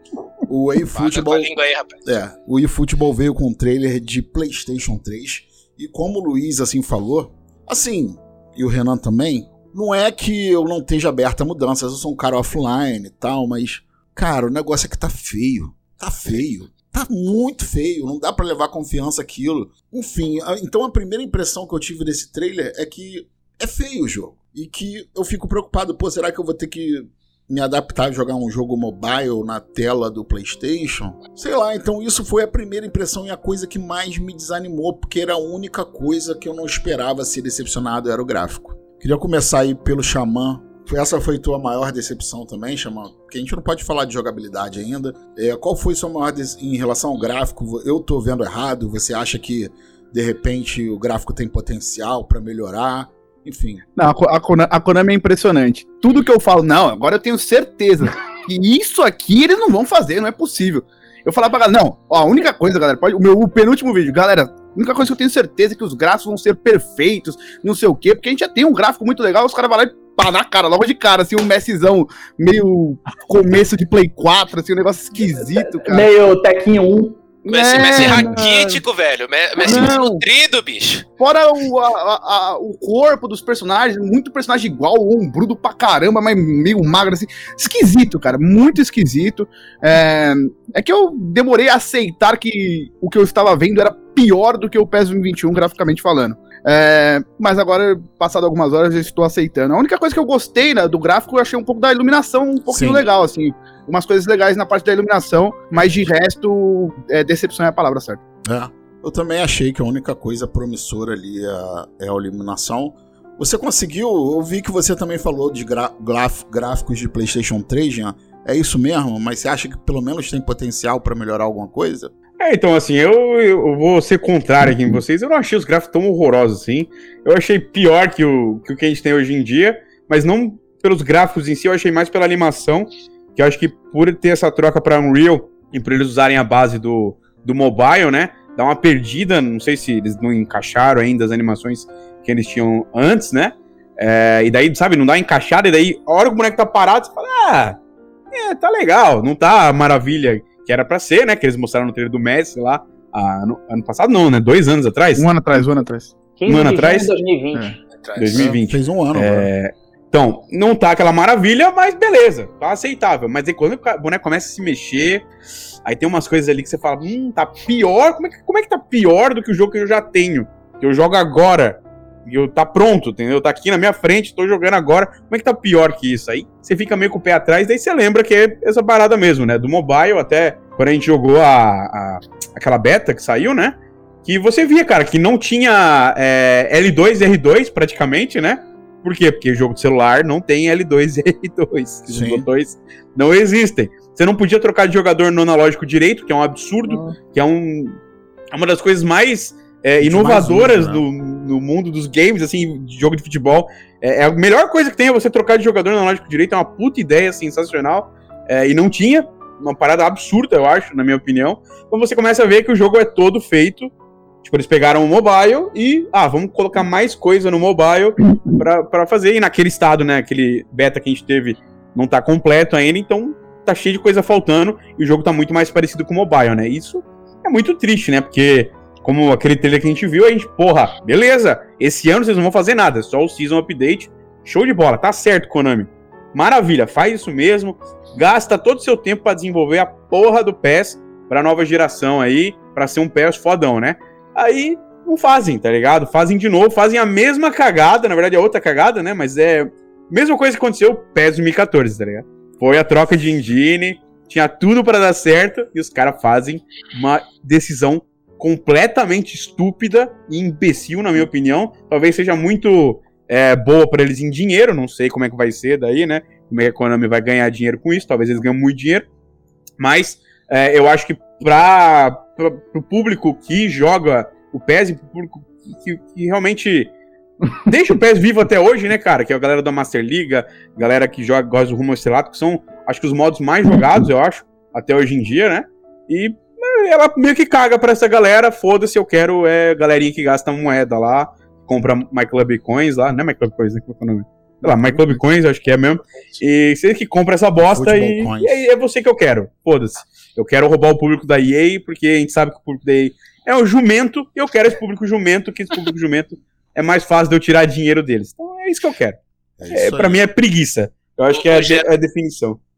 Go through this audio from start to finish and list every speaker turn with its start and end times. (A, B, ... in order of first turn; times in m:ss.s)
0:00.5-0:01.5 A
0:00.9-0:02.0 B
0:02.0-0:53.8 A
0:54.0-1:16.1 C
1:15.7-1:17.2 D
1:17.5-1:18.8 C
1:17.5-1:21.0 B
1:19.6-1:20.2 C
1:21.2-1:48.2 C
1:42.7-1:43.1 A
1:48.4-2:02.1 A
2:02.4-2:27.8 E
2:28.3-2:35.3 E
2:35.2-2:36.1 C
2:36.4-2:37.8 D
2:36.5-2:37.1 E
2:38.0-2:38.5 B
2:38.2-2:45.2 E
2:38.3-2:39.5 A
2:45.8-3:18.0 E
3:12.1-3:12.5 A
3:16.9-3:17.1 C
3:18.5-3:33.9 E
3:20.0-3:21.0 A
3:34.4-4:29.1 E
4:29.8-4:36.9 E
4:37.7-5:09.2 E
4:54.6-4:55.0 A
4:57.6-4:58.7 A
5:09.6-5:10.2 A
5:09.7-5:12.6 E
5:11.3-5:11.9 B